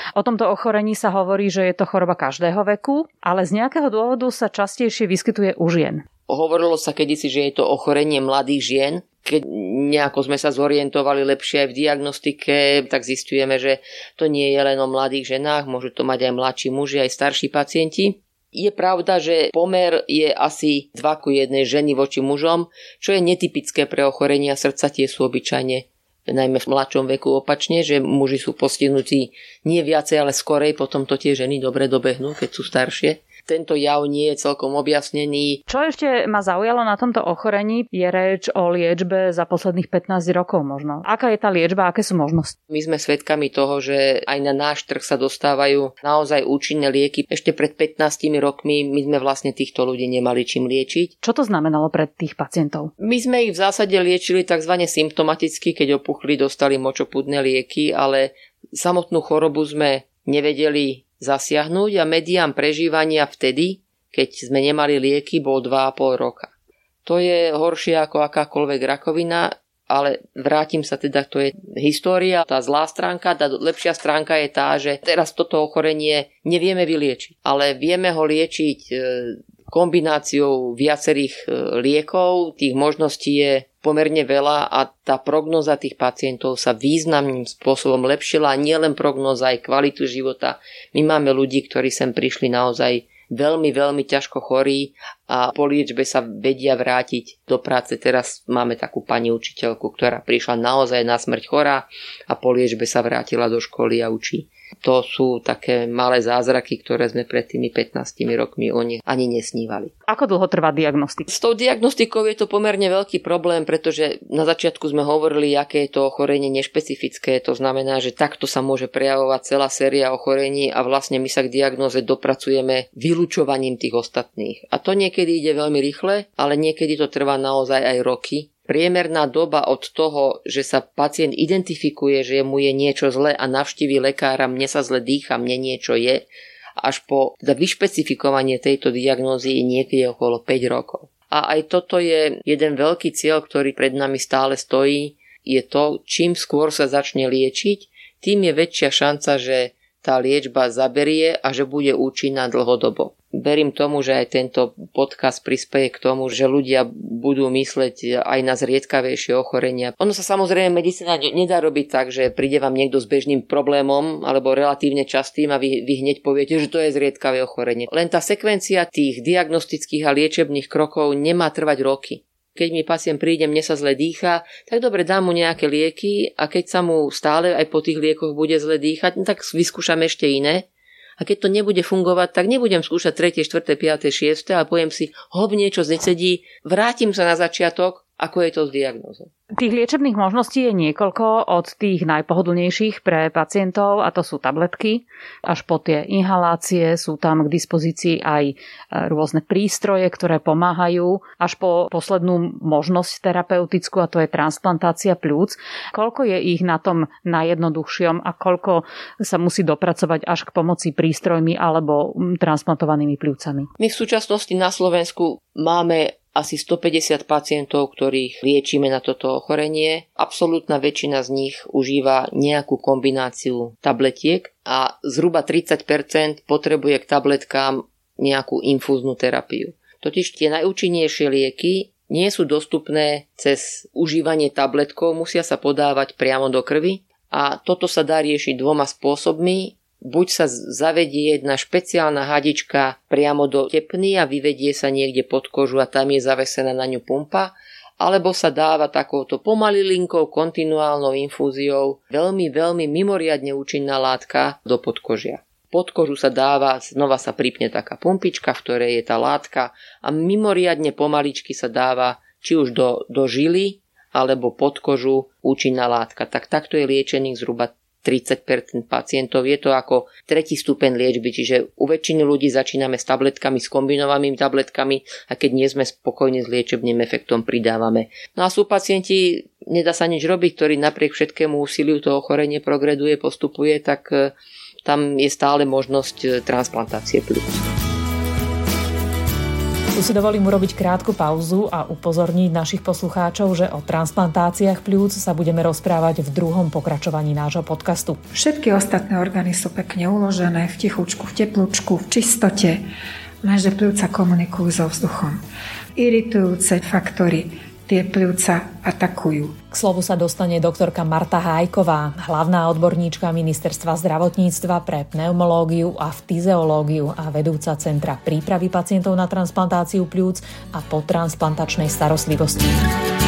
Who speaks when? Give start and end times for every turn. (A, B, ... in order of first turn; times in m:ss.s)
0:00.2-0:06.0 A
0:06.3-0:35.6 B
0:35.7-0:42.5 A
0:42.7-0:51.1 B
0:51.2-0:52.9 A
0:53.0-1:06.5 B
1:07.0-1:49.9 B
1:50.1-1:51.3 A
1:51.3-3:00.6 B
3:01.2-3:09.3 B
3:09.5-3:33.7 A
3:33.8-4:44.3 B
4:44.8-4:47.6 B
4:49.9-4:58.2 C
4:58.3-5:02.8 D
5:03.4-5:05.4 D
5:06.0-5:09.5 D
5:09.7-5:22.7 C